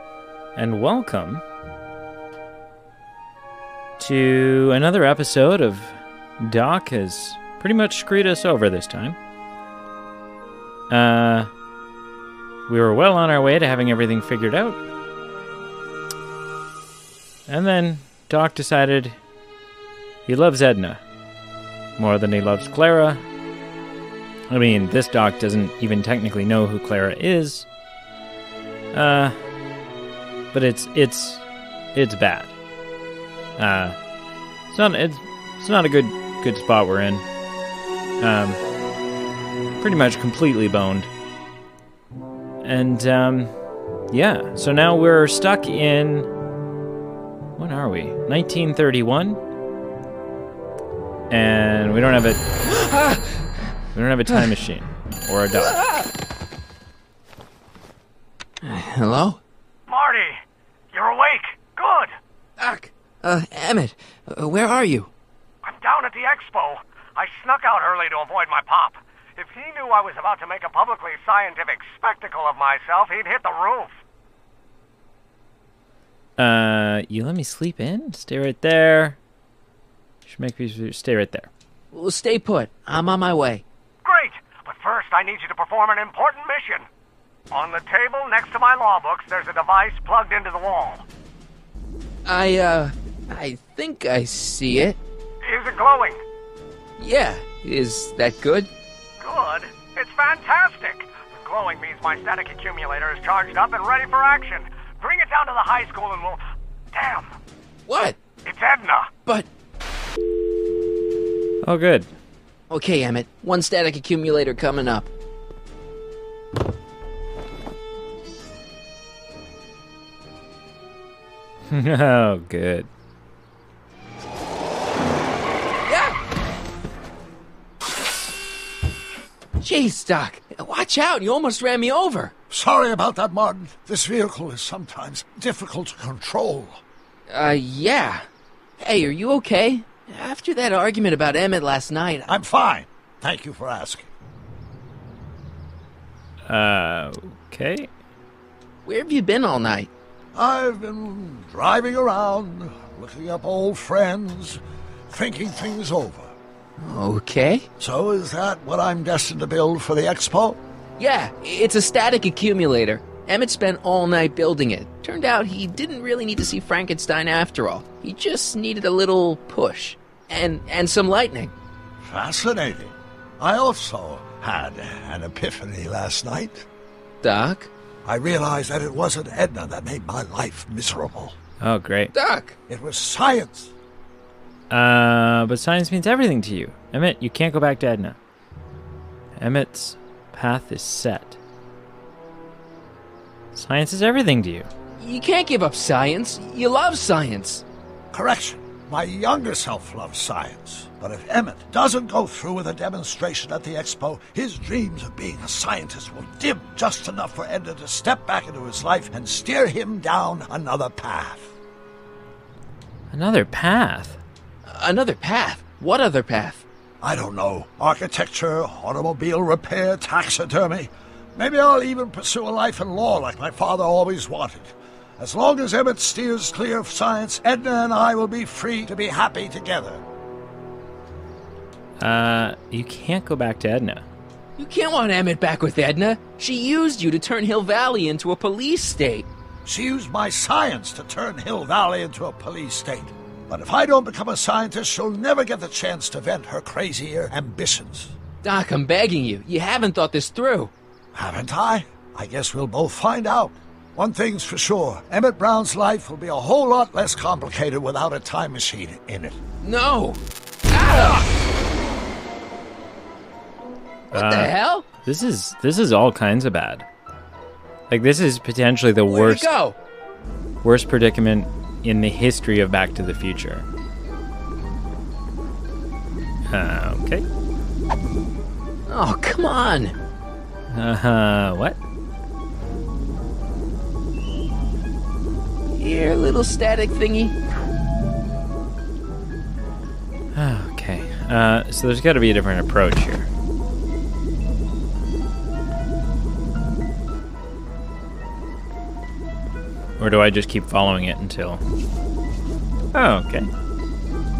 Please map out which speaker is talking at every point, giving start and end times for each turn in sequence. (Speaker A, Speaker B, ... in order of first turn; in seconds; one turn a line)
Speaker A: 0.6-1.4
Speaker A: 4.0-9.2
Speaker A: 10.9-11.5
Speaker A: 12.7-14.8
Speaker A: 17.5-19.2
Speaker A: 20.3-21.0
Speaker A: 22.0-23.2
Speaker A: 24.5-27.7
Speaker A: 28.9-29.4
Speaker A: 30.5-32.5
Speaker A: 33.6-34.0
Speaker A: 34.7-37.2
Speaker A: 38.2-38.6
Speaker A: 39.8-41.1
Speaker A: 42.6-43.6
Speaker A: 44.1-46.3
Speaker A: 47.6-49.4
Speaker A: 51.3-52.4
Speaker B: 52.8-53.2
Speaker A: 53.9-55.8
Speaker B: 55.5-56.1
Speaker B: 58.6-59.4
Speaker C: 59.9-60.4
Speaker C: 60.9-62.1
Speaker B: 62.6-65.1
Speaker C: 65.6-74.0
Speaker A: 76.4-79.2
Speaker A: 80.3-81.5
Speaker B: 81.9-83.6
Speaker C: 84.0-86.8
Speaker C: 87.5-91.0
Speaker B: 92.3-95.0
Speaker C: 95.4-96.2
Speaker B: 97.0-98.7
Speaker C: 99.2-106.4
Speaker C: 106.9-107.3
Speaker B: 107.9-108.2
Speaker C: 108.5-109.1
Speaker A: 111.6-112.1
Speaker B: 112.7-115.1
Speaker A: 121.7-122.9
Speaker B: 125.9-126.2
Speaker B: 129.6-132.3
Speaker D: 132.5-136.8
Speaker B: 137.3-138.2
Speaker B: 138.8-142.3
Speaker D: 142.3-144.1
Speaker A: 146.5-147.9
Speaker B: 148.8-149.9
Speaker D: 150.3-156.3
Speaker B: 156.8-157.7
Speaker D: 157.8-160.6
Speaker B: 161.0-171.5
Speaker D: 172.0-176.7
Speaker B: 177.2-177.7
Speaker D: 178.1-181.4
Speaker A: 181.6-182.1
Speaker B: 182.1-182.6
Speaker D: 182.7-183.7
Speaker A: 184.7-188.2
Speaker A: 189.4-191.4
Speaker A: 193.6-194.7
Speaker B: 195.0-197.6
Speaker D: 198.1-211.5
Speaker A: 213.1-214.2
Speaker B: 214.7-216.6
Speaker D: 217.0-230.0
Speaker A: 232.0-234.1
Speaker B: 234.6-239.3
Speaker D: 239.7-248.1
Speaker B: 248.4-250.7
Speaker D: 251.1-259.4
Speaker B: 259.6-261.3
Speaker B: 264.1-264.9
Speaker A: 264.1-266.9
Speaker A: 267.9-269.5
Speaker B: 269.1-269.8
Speaker A: 270.6-273.7
Speaker A: 276.5-277.2
Speaker B: 278.9-279.9
Speaker A: 280.7-281.8
Speaker B: 285.8-287.3
Speaker A: 290.3-293.3
Speaker A: 300.0-301.6
Speaker A: 302.9-303.5